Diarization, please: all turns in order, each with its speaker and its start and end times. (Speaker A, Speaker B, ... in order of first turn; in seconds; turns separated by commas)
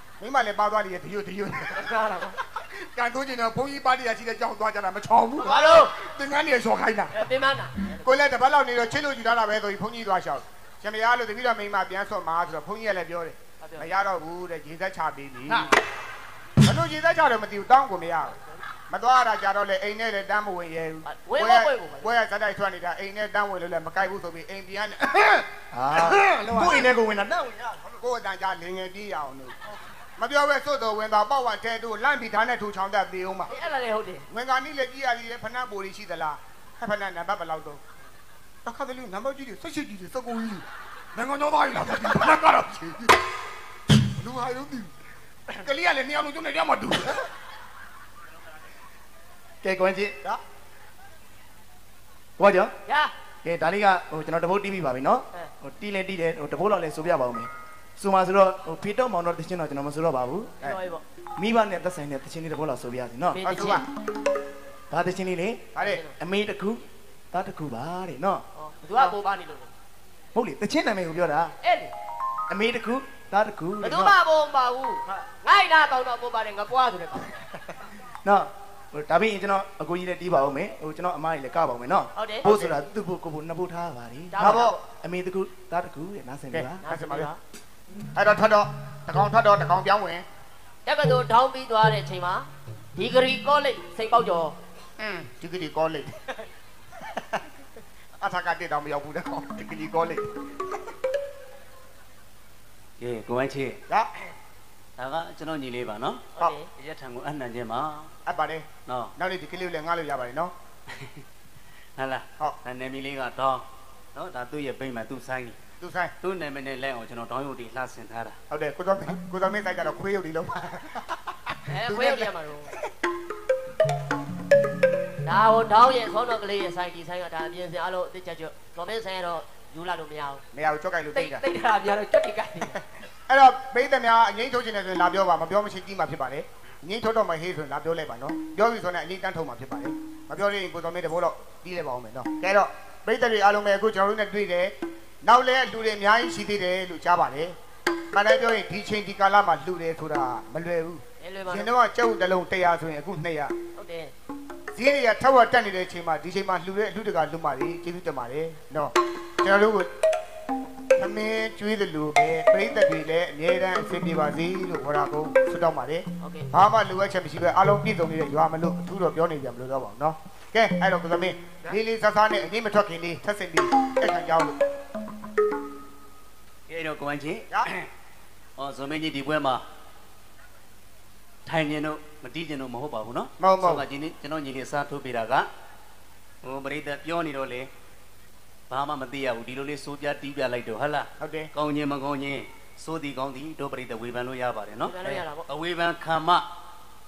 Speaker A: 0.2-7.2, Speaker B: 1.7-2.4, Speaker B: 5.4-5.9, Speaker B: 7.1-8.1, Speaker A: 8.0-15.7, Speaker B: 13.6-13.9, Speaker A: 16.6-18.4, Speaker A: 18.9-26.9, Speaker B: 21.1-22.1, Speaker C: 25.7-28.0, Speaker A: 28.0-29.6, Speaker A: 30.2-33.5, Speaker B: 33.5-34.2, Speaker A: 34.3-37.8, Speaker A: 38.6-43.1, Speaker A: 44.0-44.9, Speaker A: 45.5-47.2, Speaker C: 49.6-50.1, Speaker C: 52.4-52.7, Speaker B: 52.9-53.1, Speaker C: 53.4-60.5, Speaker B: 60.6-61.0, Speaker C: 61.4-63.7, Speaker B: 63.3-63.8, Speaker A: 63.4-63.8, Speaker C: 64.9-68.4, Speaker A: 65.7-66.0, Speaker B: 65.8-66.1, Speaker B: 68.5-69.7, Speaker C: 70.3-71.5, Speaker B: 71.6-71.9, Speaker C: 72.5-74.2, Speaker B: 73.8-77.4, Speaker C: 78.2-86.8, Speaker B: 82.2-82.5, Speaker A: 82.4-82.8, Speaker B: 84.3-84.7, Speaker A: 84.4-84.8, Speaker A: 86.5-87.3, Speaker B: 86.8-87.4, Speaker A: 88.1-90.2, Speaker B: 90.8-94.5, Speaker A: 95.0-96.1, Speaker A: 97.1-97.4, Speaker A: 98.2-100.3, Speaker D: 103.0-103.8, Speaker D: 105.0-108.1, Speaker B: 106.4-106.7, Speaker A: 108.3-110.5, Speaker D: 108.8-109.1, Speaker D: 110.9-111.2, Speaker D: 112.0-113.6, Speaker D: 114.1-115.6, Speaker A: 115.8-116.1, Speaker D: 116.2-118.3, Speaker A: 118.5-122.3, Speaker B: 121.7-122.7, Speaker B: 125.2-130.4, Speaker A: 130.5-131.4, Speaker B: 131.1-132.8, Speaker A: 133.3-144.7, Speaker A: 145.2-147.6, Speaker A: 148.1-153.5, Speaker B: 151.2-151.7, Speaker B: 153.8-154.1, Speaker A: 154.7-159.9, Speaker A: 161.0-174.6, Speaker B: 166.2-166.5, Speaker D: 176.7-177.9, Speaker D: 178.6-179.6, Speaker D: 181.4-185.4, Speaker A: 183.4-183.8, Speaker D: 186.4-187.7, Speaker D: 188.7-196.4, Speaker A: 191.2-191.5, Speaker B: 194.8-195.4